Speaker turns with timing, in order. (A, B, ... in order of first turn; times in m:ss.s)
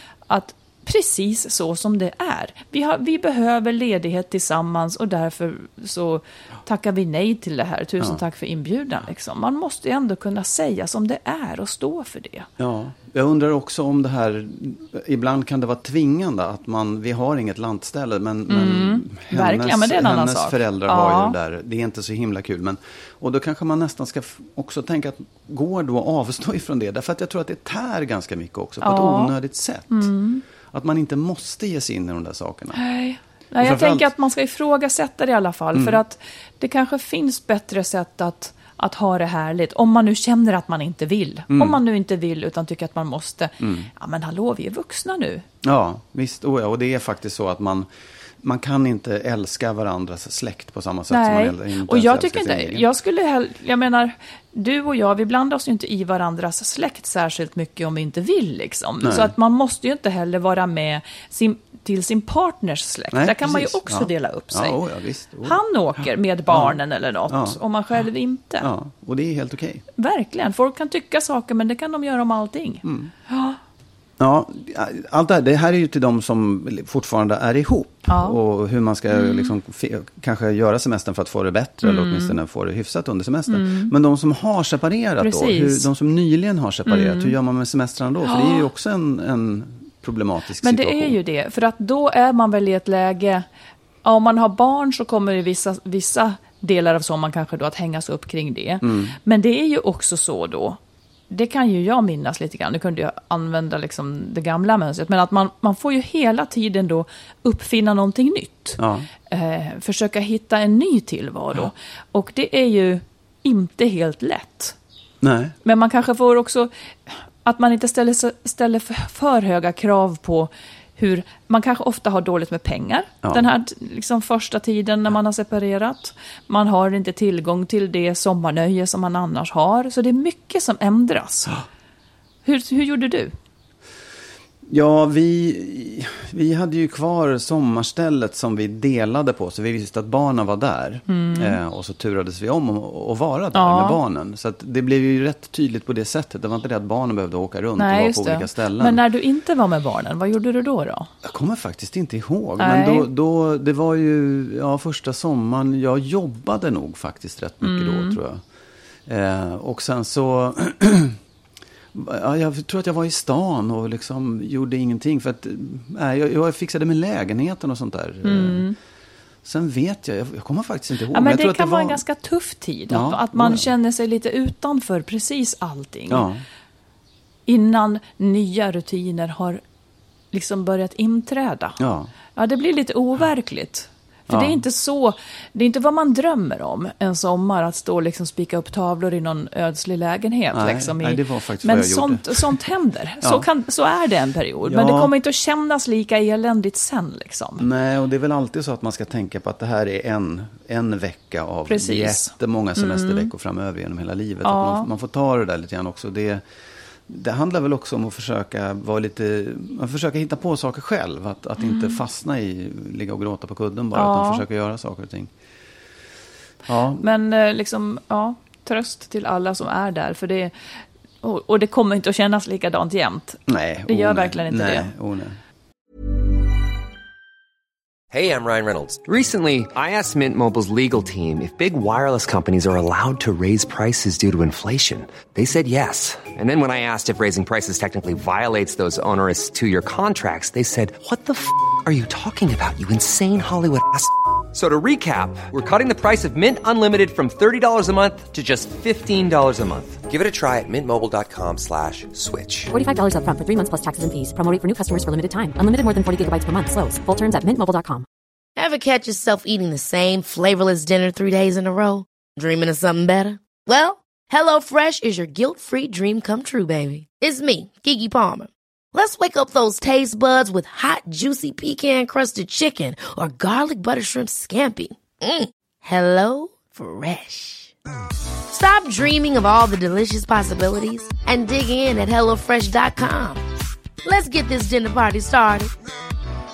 0:00.3-0:12.5 A
0:12.6-0:30.1 B
0:18.5-0:21.3 A
0:28.8-0:29.3 A
0:29.9-0:30.4 A
0:30.7-0:32.8 B
0:32.8-0:45.4 A
0:33.6-0:34.1 B
0:35.7-0:36.0 B
0:41.5-0:41.8 B
0:43.6-0:43.9 B
0:45.6-0:47.9 B
0:48.4-0:52.8 B
0:51.1-1:04.8 A
0:59.0-0:59.3 B
1:03.1-1:05.6 B
1:05.4-1:08.7 A
1:06.5-1:07.6 B
1:08.6-1:09.8 B
1:10.0-1:13.6 A
1:12.8-1:13.1 B
1:14.2-1:31.2 B
1:18.1-1:18.4 A
1:19.1-1:19.5 A
1:21.8-1:22.4 A
1:23.5-1:23.9 A
1:25.2-1:25.9 A
1:26.9-1:27.3 A
1:28.3-1:28.6 A
1:30.6-1:33.4 A
1:34.0-1:40.8 A
1:38.8-1:39.2 B
1:41.3-1:48.8 A
1:48.8-1:49.1 B
1:49.3-1:54.7 A
1:55.2-1:55.5 B
1:55.6-2:11.6 A
2:12.4-2:13.3 A
2:14.7-2:29.0 B
2:21.1-2:21.6 A
2:23.5-2:24.0 A
2:27.8-2:31.1 A
2:31.2-2:38.4 B
2:32.6-2:33.1 A
2:37.6-2:38.2 A
2:39.1-2:41.2 B
2:41.9-2:48.6 B
2:48.2-2:48.7 A
2:49.4-2:52.0 B
2:51.1-2:56.2 A
2:52.9-2:53.7 B
2:56.1-2:56.4 B
2:57.5-2:59.6 A
3:00.3-3:01.8 A
3:01.8-3:02.1 B
3:02.4-3:17.6 A
3:04.3-3:04.6 B
3:10.5-3:12.5 B
3:14.6-3:15.1 B
3:17.6-3:26.4 B
3:21.7-3:23.3 A
3:24.4-3:24.9 A
3:27.1-3:35.3 B
3:31.6-3:32.0 A
3:33.9-3:34.4 A
3:36.6-3:37.0 B
3:37.0-3:40.5 A
3:41.2-3:44.9 A
3:43.5-3:45.4 B
3:48.1-4:12.7 C
4:12.7-4:18.0 D
4:18.6-4:37.7 E
4:38.5-4:43.4 E
4:44.0-4:45.7 E